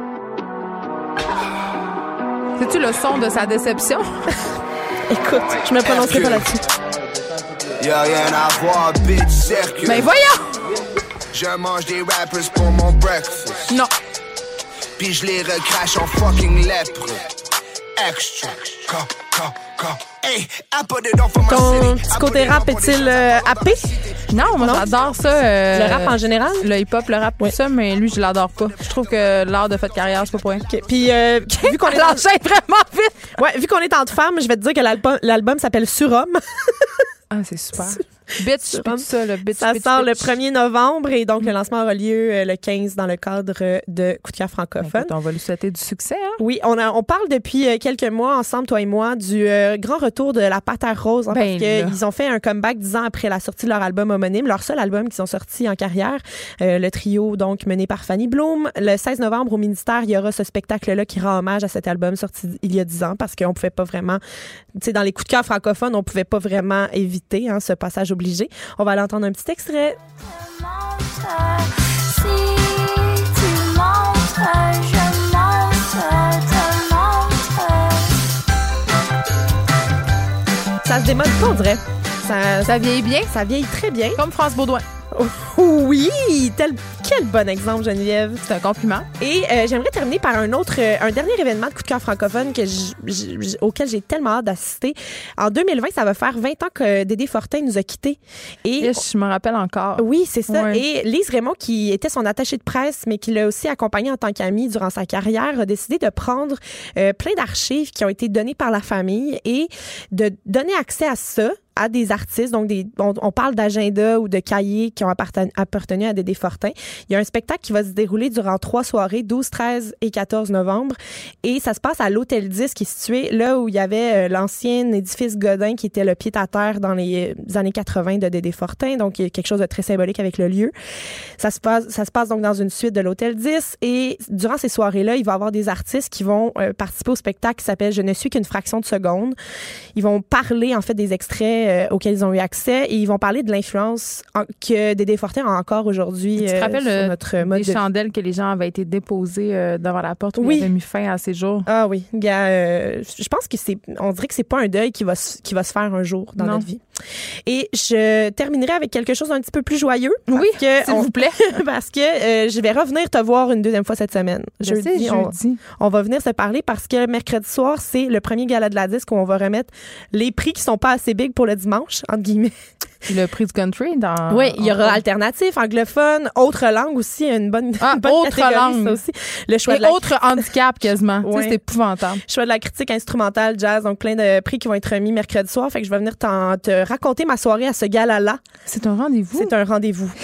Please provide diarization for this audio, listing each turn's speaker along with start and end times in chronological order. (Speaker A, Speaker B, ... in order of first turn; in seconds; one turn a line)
Speaker A: 2.6-4.1
Speaker B: 5.1-6.6
Speaker C: 5.8-6.5
Speaker C: 7.8-10.1
Speaker A: 9.9-10.4
Speaker C: 11.3-13.7
Speaker C: 15.0-17.3
Speaker C: 18.0-24.6
Speaker B: 21.4-24.0
Speaker A: 24.3-30.7
Speaker B: 24.6-24.9
Speaker B: 25.7-26.7
Speaker B: 30.7-32.3
Speaker A: 31.5-33.4
Speaker B: 33.4-36.9
Speaker A: 37.3-40.4
Speaker B: 38.5-45.1
Speaker A: 44.8-46.4
Speaker B: 46.4-64.2
Speaker A: 51.3-52.0
Speaker B: 64.8-70.0
Speaker D: 70.7-78.1
Speaker B: 80.8-84.2
Speaker A: 82.7-83.3
Speaker A: 84.1-84.8
Speaker B: 85.1-88.5
Speaker A: 88.5-89.1
Speaker B: 89.2-99.0
Speaker A: 98.8-100.8
Speaker B: 100.0-130.7
Speaker B: 131.4-139.4
Speaker B: 139.9-147.8
Speaker A: 146.4-151.7
Speaker B: 150.4-150.7
Speaker B: 151.7-156.8
Speaker A: 156.4-156.7
Speaker B: 157.5-172.5
Speaker A: 160.3-161.6
Speaker A: 164.6-165.6
Speaker A: 173.1-175.0
Speaker B: 174.3-180.5
Speaker A: 177.8-179.0
Speaker A: 179.7-182.2
Speaker B: 181.2-181.6
Speaker B: 182.3-188.4
Speaker A: 188.7-189.6
Speaker B: 189.3-190.2